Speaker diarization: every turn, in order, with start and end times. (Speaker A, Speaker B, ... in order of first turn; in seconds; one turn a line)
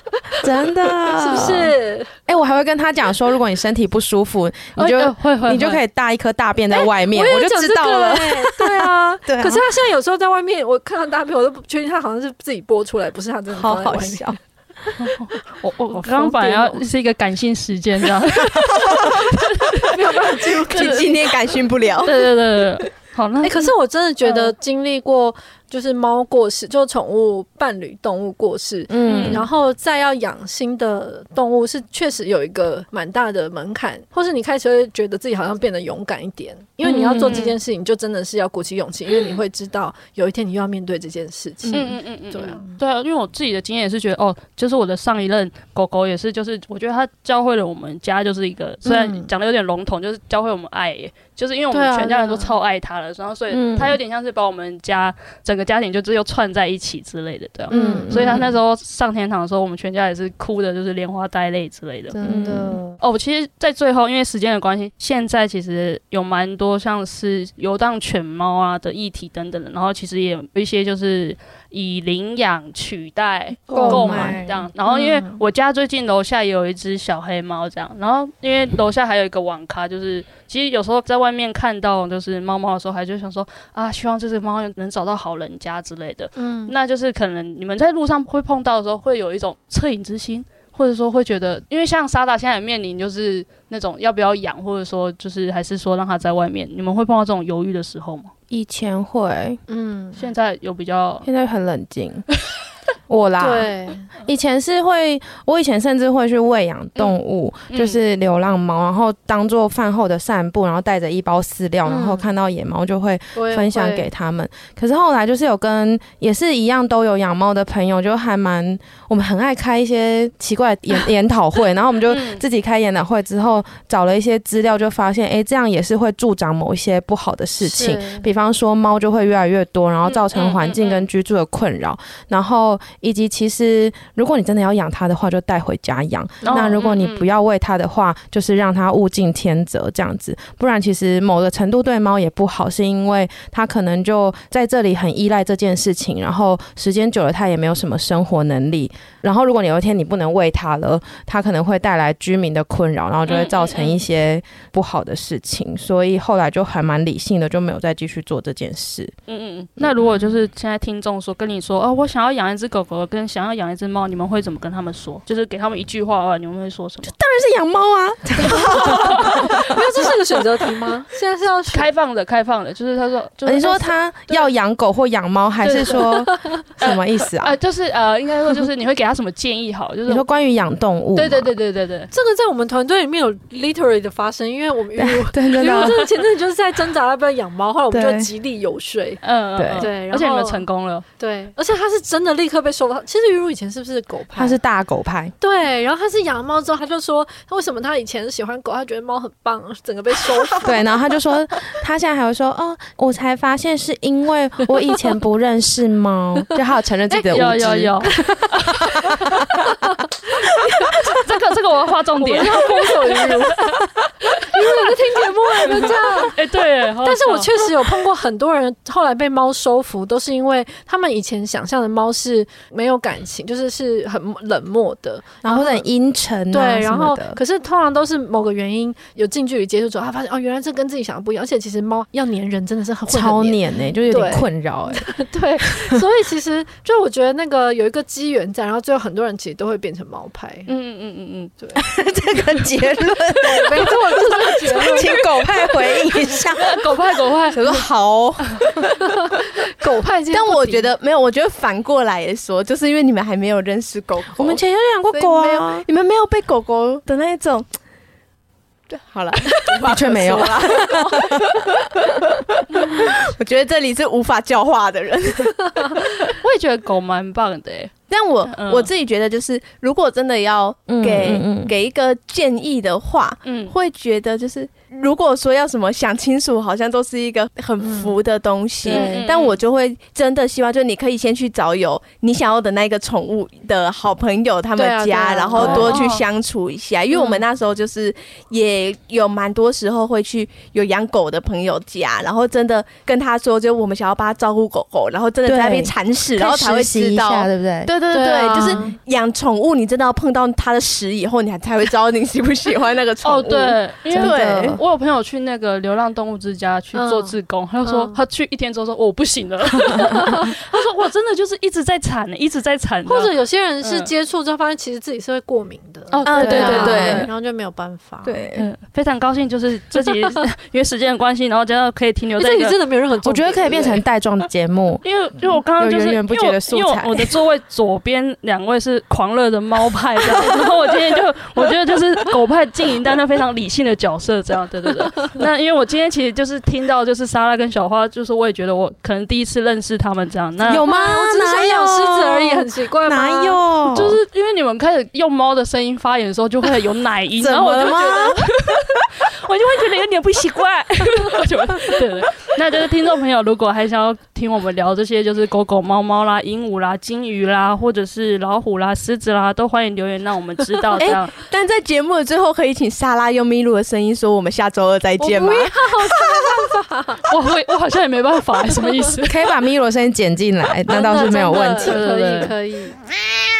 Speaker A: 0.4-1.7
Speaker B: 1.1-2.1
Speaker A: 2.3-9.7
Speaker C: 4.8-5.8
Speaker B: 6.7-14.3
Speaker A: 13.5-14.4
Speaker C: 15.0-20.0
Speaker B: 15.9-16.9
Speaker B: 19.8-21.4
Speaker D: 20.5-22.2
Speaker C: 22.0-23.7
Speaker B: 23.4-42.7
Speaker A: 28.9-29.5
Speaker C: 29.1-29.5
Speaker A: 36.8-37.5
Speaker C: 37.2-37.5
Speaker C: 41.7-62.2
Speaker B: 48.9-49.3
Speaker B: 51.7-52.5
Speaker A: 53.5-54.0
Speaker B: 57.7-58.5
Speaker A: 57.7-58.5
Speaker A: 62.1-62.8
Speaker B: 62.2-62.9
Speaker C: 63.0-98.3
Speaker B: 73.7-75.4
Speaker A: 73.7-74.5
Speaker B: 86.4-86.7
Speaker A: 98.5-99.6
Speaker B: 99.7-100.3
Speaker C: 100.2-101.3
Speaker A: 101.2-102.3
Speaker A: 103.1-159.1
Speaker B: 103.4-104.1
Speaker C: 107.7-108.0
Speaker B: 111.9-112.3
Speaker B: 113.3-114.1
Speaker C: 122.1-122.4
Speaker B: 127.6-128.3
Speaker C: 130.1-131.1
Speaker C: 136.4-137.3
Speaker C: 153.3-154.0
Speaker C: 159.3-167.1
Speaker A: 159.8-160.3
Speaker A: 167.0-169.8
Speaker C: 168.4-169.7
Speaker B: 169.6-171.9
Speaker C: 171.7-173.9
Speaker A: 173.4-177.6
Speaker C: 175.6-176.0
Speaker B: 175.8-176.5
Speaker C: 176.8-180.2
Speaker A: 180.1-181.5
Speaker C: 181.2-182.1
Speaker B: 182.1-189.2
Speaker A: 185.0-186.1
Speaker A: 187.9-188.3
Speaker C: 189.2-191.1
Speaker A: 189.6-189.9
Speaker B: 189.8-190.7
Speaker B: 191.2-194.6
Speaker A: 194.3-195.3
Speaker B: 195.4-200.9
Speaker A: 200.6-209.4
Speaker C: 207.2-208.6
Speaker B: 210.4-211.1
Speaker C: 211.1-213.8
Speaker B: 212.2-216.4
Speaker C: 215.7-217.7
Speaker B: 217.0-225.8
Speaker A: 225.4-227.4
Speaker B: 226.5-240.7
Speaker A: 233.1-235.1
Speaker C: 240.7-241.5
Speaker A: 241.8-246.8
Speaker B: 243.4-245.2
Speaker C: 246.6-247.7
Speaker D: 247.5-248.9
Speaker B: 248.8-250.9
Speaker D: 250.3-257.7
Speaker A: 254.3-255.9
Speaker D: 258.9-266.3
Speaker B: 259.7-261.2
Speaker A: 259.8-261.4
Speaker C: 266.3-267.9
Speaker D: 268.1-304.8
Speaker C: 268.5-268.9
Speaker A: 270.9-271.7
Speaker C: 273.4-273.7
Speaker B: 277.8-278.2
Speaker C: 278.9-279.6
Speaker B: 278.9-279.2
Speaker B: 284.8-285.9
Speaker C: 285.6-286.2
Speaker A: 285.6-285.9
Speaker A: 295.4-297.9
Speaker B: 298.1-298.9
Speaker C: 303.2-314.1
Speaker A: 304.1-304.8
Speaker B: 306.9-308.2
Speaker B: 313.1-318.4
Speaker C: 316.1-317.3
Speaker D: 316.2-317.3
Speaker A: 316.4-317.3
Speaker D: 318.2-318.7
Speaker C: 318.6-322.8
Speaker B: 322.4-324.0
Speaker A: 323.2-325.0
Speaker C: 325.0-340.9
Speaker A: 325.8-327.3
Speaker A: 340.6-344.2
Speaker B: 340.8-343.6
Speaker C: 343.9-361.4
Speaker A: 347.4-348.8
Speaker D: 361.0-366.5
Speaker B: 365.2-367.3
Speaker C: 367.3-369.4
Speaker A: 369.2-372.0
Speaker B: 370.9-373.0
Speaker C: 371.7-372.5